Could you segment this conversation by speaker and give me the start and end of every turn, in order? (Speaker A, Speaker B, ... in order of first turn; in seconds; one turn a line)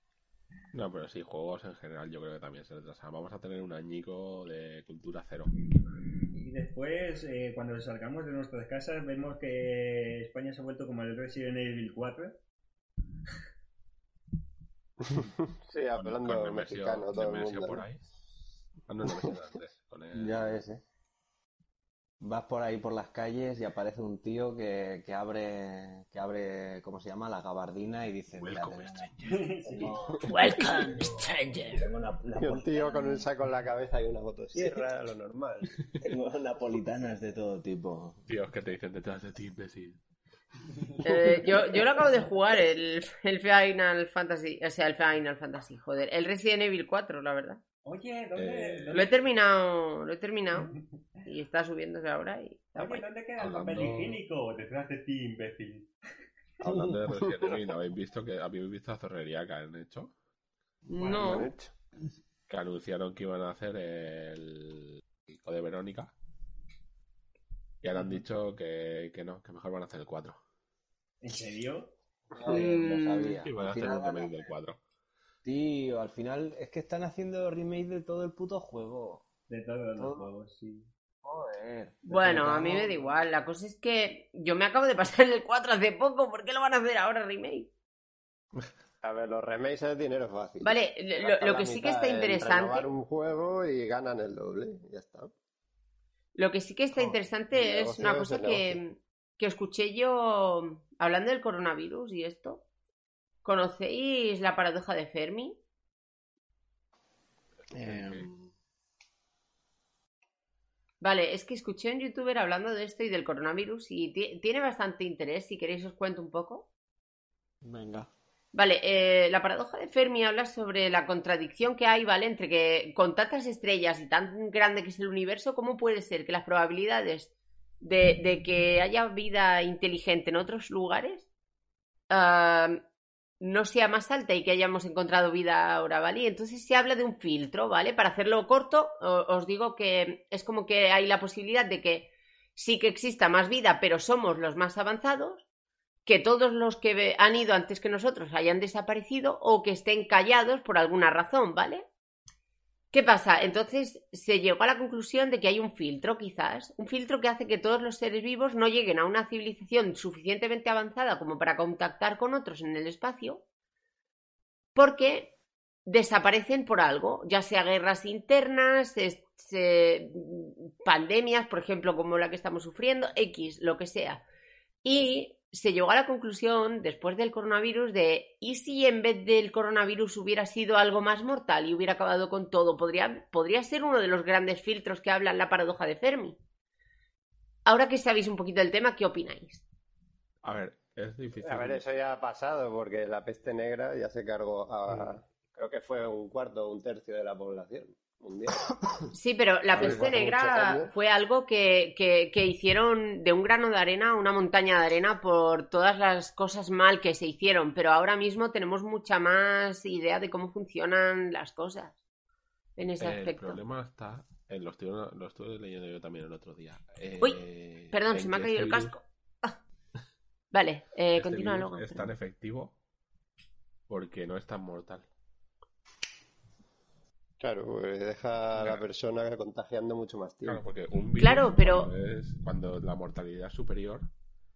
Speaker A: 0.7-5.5
Speaker B: 6.3-12.3
Speaker C: 15.2-17.8
Speaker A: 16.0-18.0
Speaker A: 18.9-20.6
Speaker D: 20.1-20.8
Speaker D: 22.2-29.1
Speaker A: 28.3-29.4
Speaker B: 29.3-30.0
Speaker D: 29.6-33.2
Speaker A: 30.3-30.8
Speaker C: 32.4-35.8
Speaker D: 34.5-34.8
Speaker D: 36.0-38.2
Speaker A: 38.3-40.0
Speaker E: 41.0-47.6
Speaker B: 47.8-49.1
Speaker A: 48.3-49.1
Speaker E: 48.9-50.7
Speaker E: 51.2-53.0
Speaker B: 52.8-55.9
Speaker A: 53.4-54.2
Speaker A: 56.6-60.1
Speaker E: 60.9-61.5
Speaker B: 61.0-61.5
Speaker C: 61.2-61.7
Speaker A: 62.5-66.1
Speaker A: 67.8-70.4
Speaker B: 71.2-71.9
Speaker D: 72.4-74.4
Speaker E: 72.5-73.3
Speaker A: 73.4-74.8
Speaker D: 75.4-79.2
Speaker B: 79.5-80.9
Speaker D: 80.0-80.3
Speaker D: 81.2-83.1
Speaker E: 82.0-87.7
Speaker C: 89.0-95.3
Speaker E: 90.6-92.9
Speaker E: 96.3-102.6
Speaker C: 97.0-98.8
Speaker E: 103.4-105.5
Speaker D: 107.7-108.3
Speaker A: 107.7-108.3
Speaker E: 111.0-116.6
Speaker D: 117.6-118.1
Speaker E: 118.5-127.3
Speaker E: 127.8-131.2
Speaker E: 132.1-132.8
Speaker E: 133.4-145.4
Speaker E: 146.1-151.8
Speaker E: 152.9-163.4
Speaker E: 164.7-165.3
Speaker E: 165.8-174.2
Speaker E: 174.8-186.4
Speaker E: 187.7-189.6
Speaker A: 190.4-191.9
Speaker C: 191.4-198.7
Speaker E: 199.1-211.9
Speaker C: 199.7-200.9
Speaker E: 212.8-213.6
Speaker A: 213.0-219.0
Speaker E: 217.9-219.5
Speaker E: 220.5-222.1
Speaker A: 221.1-222.7
Speaker A: 223.9-225.1
Speaker C: 227.4-230.6
Speaker A: 228.6-228.8
Speaker A: 230.4-234.1
Speaker E: 231.2-231.9